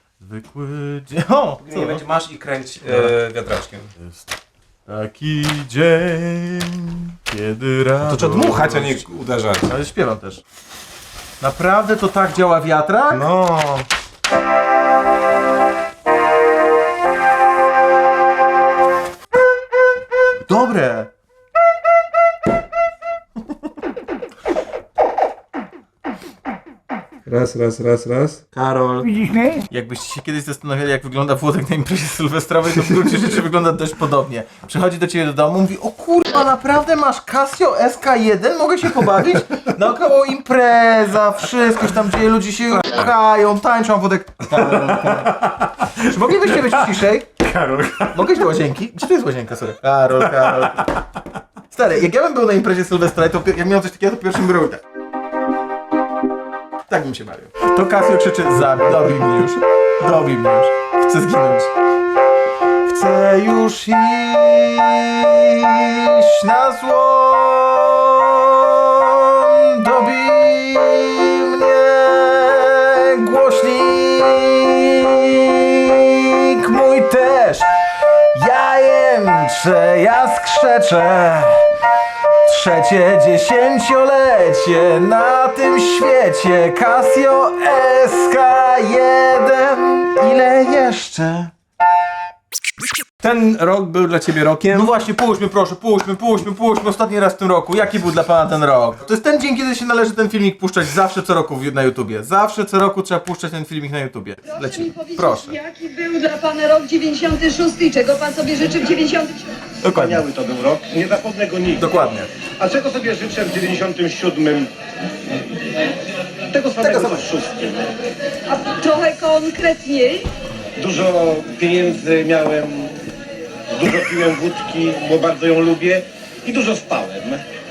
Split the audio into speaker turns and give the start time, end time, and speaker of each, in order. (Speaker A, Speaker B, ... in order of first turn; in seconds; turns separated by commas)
Speaker A: 0.2-2.0, Speaker B: 1.6-3.9, Speaker A: 2.9-3.1, Speaker A: 4.0-4.3, Speaker A: 4.9-9.1, Speaker B: 8.1-9.7, Speaker A: 9.6-10.4, Speaker A: 11.4-13.2, Speaker B: 13.1-13.9, Speaker A: 20.4-21.1, Speaker B: 27.2-29.3, Speaker A: 29.4-45.4, Speaker B: 42.8-43.1, Speaker B: 44.4-48.5, Speaker A: 46.0-47.3, Speaker A: 48.1-50.9, Speaker B: 50.2-51.1, Speaker A: 51.7-54.8, Speaker A: 56.9-61.7, Speaker A: 62.9-77.7, Speaker A: 78.3-81.7, Speaker A: 82.5-91.5, Speaker B: 93.2-94.9, Speaker A: 94.7-105.6, Speaker C: 104.5-109.8, Speaker A: 109.8-110.3, Speaker D: 109.9-111.9, Speaker A: 111.8-112.3, Speaker D: 112.6-114.7, Speaker D: 116.5-117.9, Speaker A: 116.8-117.3, Speaker C: 118.5-120.3, Speaker D: 120.8-123.1, Speaker D: 123.7-127.5